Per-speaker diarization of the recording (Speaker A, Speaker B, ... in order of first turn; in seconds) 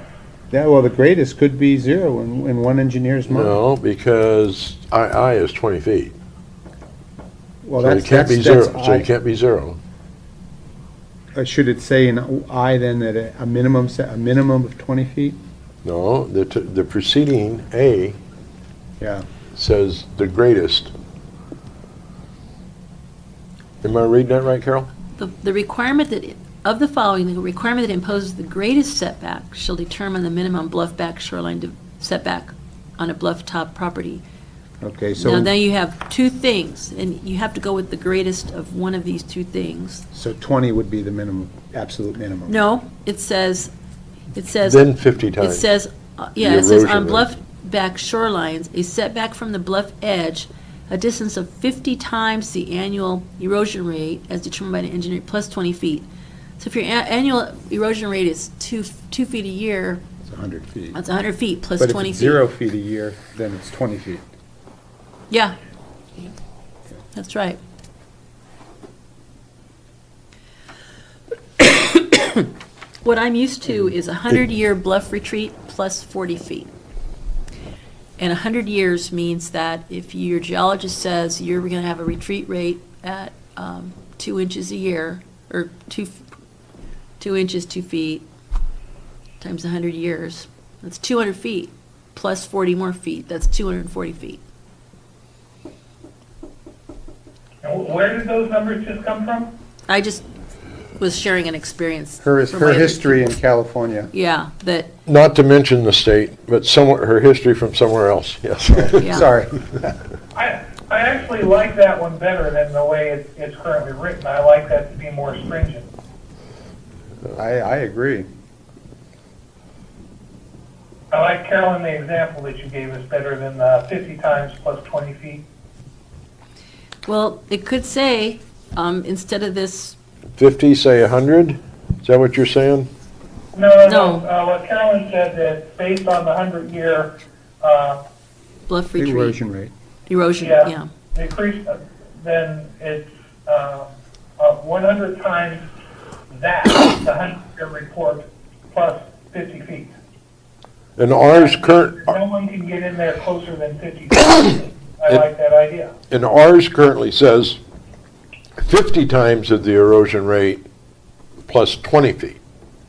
Speaker A: 0.5-3.6, 7.6-9.1, 11.3-15.4, 19.0-19.2, 34.8-35.5, 40.1-42.6, 60.2-61.0, 61.8-64.2, 102.2-104.1, 108.7-110.0, 117.4-118.3, 139.0-139.7
Speaker B: 3.3-6.1, 7.8-9.8, 15.8-18.2, 19.6-20.9, 23.8-24.9, 44.6-45.7, 46.4-47.3, 105.1-109.2, 130.4-132.9, 151.0-152.2, 156.1-157.6, 158.6-160.6, 161.5-162.4
Speaker C: 25.2-34.2, 35.2-40.0, 42.5-43.7, 44.4-56.1, 56.6-60.0, 60.9-62.4, 65.3-65.6, 67.2-67.6, 71.6-72.5, 73.0-76.7, 78.2-86.2, 87.2-88.2, 89.4-94.4, 99.9-100.2, 101.0-103.2, 104.1-104.9, 109.0-109.3, 127.1-130.0, 133.8-134.3, 138.7-139.4, 140.1-140.9
Speaker D: 97.6-99.5, 110.3-115.9, 121.1-125.4, 133.5-138.0, 140.4-145.6, 146.3-149.9, 151.3-155.9